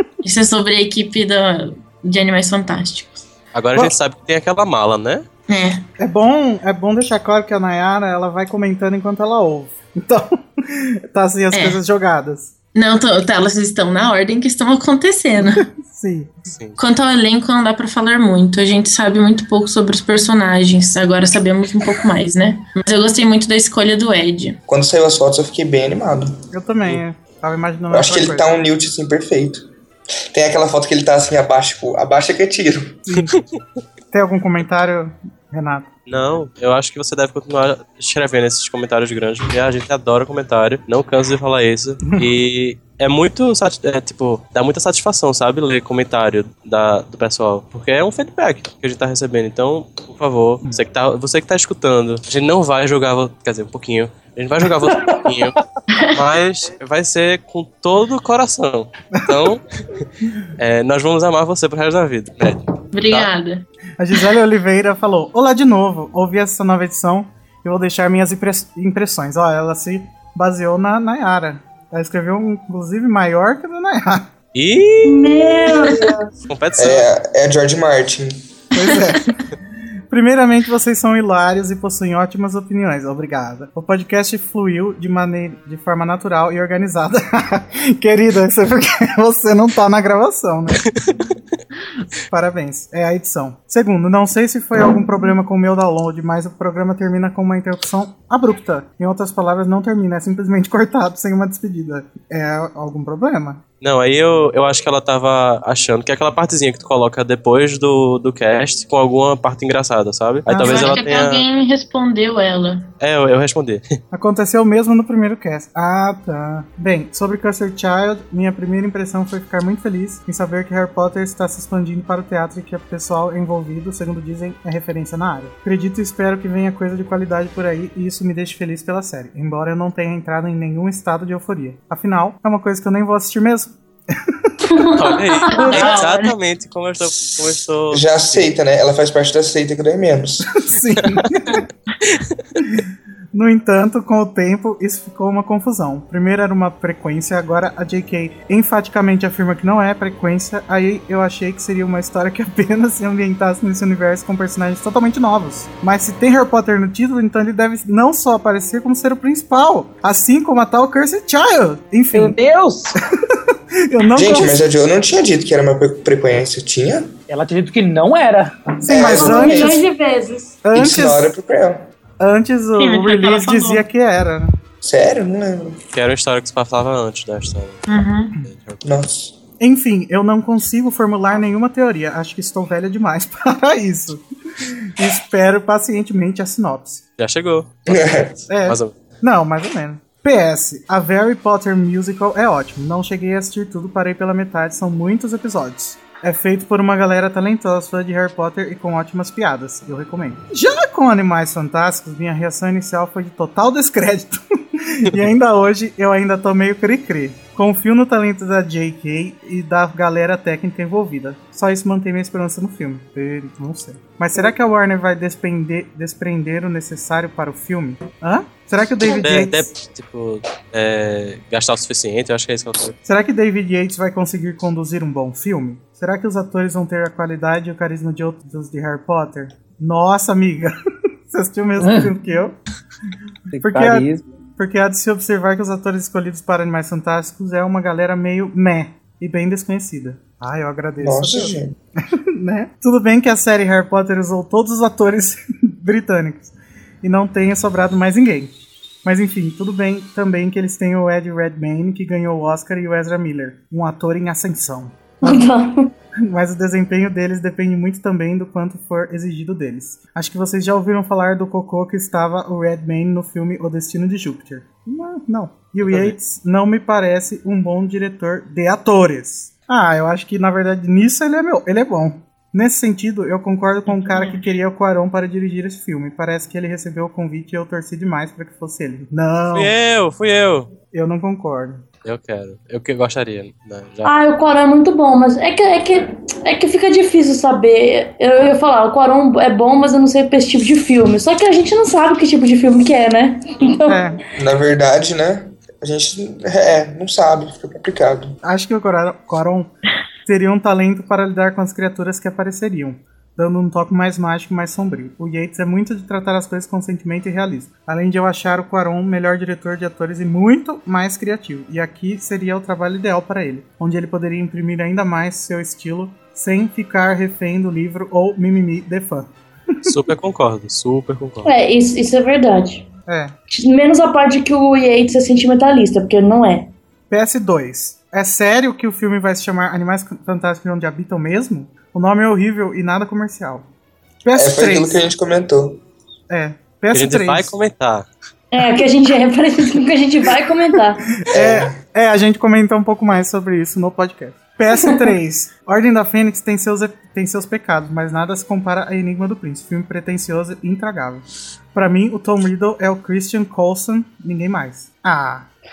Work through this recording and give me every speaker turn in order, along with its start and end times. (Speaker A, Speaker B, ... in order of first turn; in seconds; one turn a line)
Speaker A: 0.2-3.2
Speaker B: 3.5-5.3
Speaker A: 5.5-5.8
Speaker C: 6.0-12.5
Speaker A: 11.5-11.8
Speaker A: 12.7-15.7
Speaker C: 15.4-16.3
Speaker B: 16.5-16.8
Speaker A: 16.8-24.6
Speaker D: 24.7-26.4
Speaker C: 26.5-28.5
Speaker D: 27.9-29.7
Speaker D: 30.3-33.0
Speaker C: 33.1-33.3
Speaker C: 34.1-35.9
Speaker B: 36.1-55.6
Speaker E: 54.9-55.6
Speaker A: 55.9-56.2
Speaker B: 56.1-59.6
Speaker B: 60.6-63.3
Speaker A: 62.9-63.7
Speaker C: 64.0-74.3
Speaker B: 74.5-76.0
Speaker F: 75.0-76.3
Speaker B: 76.5-77.1
Speaker D: 76.8-78.5
Speaker C: 78.7-79.4
Speaker C: 80.1-90.9
Speaker C: 92.3-103.6
Speaker B: 103.8-111.4
Speaker C: 110.5-111.0
Speaker A: 110.5-112.9
Speaker B: 113.0-114.0
Speaker C: 114.1-133.7
Speaker F: 134.7-135.9
Speaker B: 135.0-138.5
Speaker A: 135.5-136.3
Speaker D: 137.9-140.6
Speaker C: 140.6-141.7
Speaker C: 142.6-162.4
Speaker E: 162.1-162.9
Speaker C: 163.3-164.6
Speaker D: 164.1-167.1
Speaker E: 167.3-168.8
Speaker C: 168.8-169.8
Speaker D: 168.9-169.8
Speaker F: 169.0-170.6
Speaker C: 170.6-171.3
Speaker D: 170.7-171.9
Speaker C: 172.2-174.5
Speaker A: 172.8-173.8
Speaker D: 174.8-175.8
Speaker B: 175.9-177.9
Speaker A: 177.9-178.4
Speaker B: 178.4-178.8
Speaker D: 178.8-179.4
Speaker C: 179.6-187.0
Speaker B: 187.2-188.9
Speaker D: 187.9-188.3
Speaker C: 188.5-219.7
Speaker B: 219.1-223.0
Speaker C: 223.1-230.7
Speaker C: 231.3-232.6
Speaker E: 231.8-232.1
Speaker E: 233.5-234.2
Speaker C: 233.6-241.6
Speaker D: 241.0-241.8
Speaker C: 242.1-255.5
Speaker F: 255.2-255.9
Speaker C: 256.2-279.7
Speaker B: 265.9-266.1
Speaker A: 273.9-274.5
Speaker B: 279.5-280.7
Speaker C: 280.9-281.8
Speaker B: 282.1-284.1
Speaker F: 284.1-294.0
Speaker C: 293.9-294.2
Speaker D: 294.4-298.4
Speaker C: 298.4-299.7
Speaker C: 300.2-319.9
Speaker B: 319.9-321.5
Speaker F: 321.4-322.9
Speaker C: 323.1-323.4
Speaker F: 323.5-326.7
Speaker C: 327.1-333.7
Speaker C: 334.2-335.0
Speaker D: 334.4-335.8
Speaker C: 336.3-337.5
Speaker B: 336.9-338.1
Speaker F: 338.5-341.2
Speaker C: 341.2-355.5
Speaker D: 341.3-341.8
Speaker F: 344.8-345.1